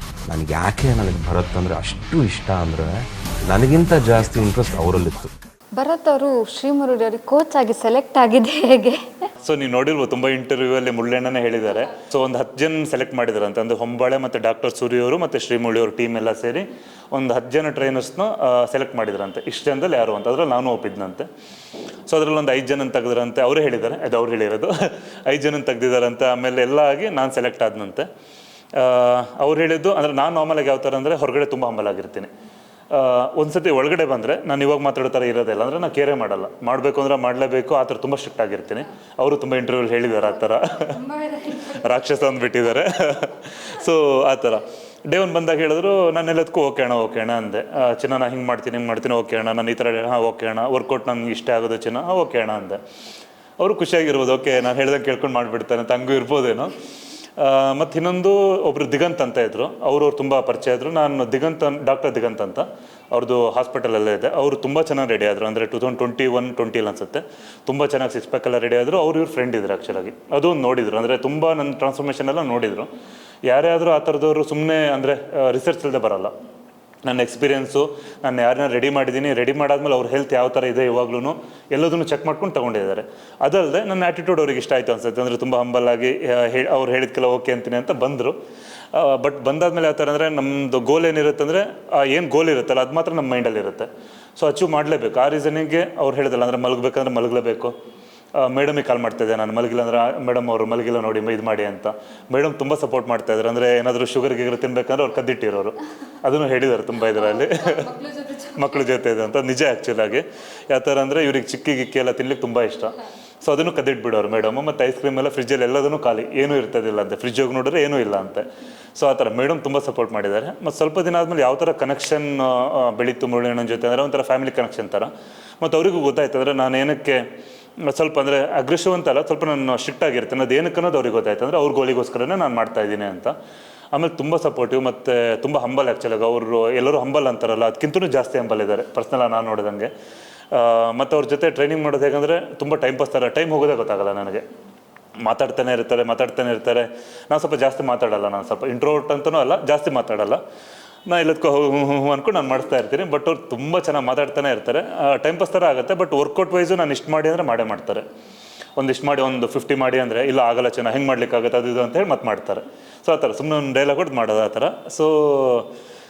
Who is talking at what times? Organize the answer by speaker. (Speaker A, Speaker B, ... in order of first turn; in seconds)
Speaker A: 0.3-5.3
Speaker B: 5.7-9.0, 41.0-41.6, 108.0-108.4
Speaker C: 9.4-21.3, 22.1-28.1, 28.8-32.3, 32.9-52.8, 53.6-56.7, 57.4-72.9, 73.5-76.3, 77.0-88.4, 88.9-97.7, 98.4-127.2, 127.9-133.3, 133.9-139.9, 140.5-144.4, 145.2-150.4, 151.1-158.1, 158.8-165.7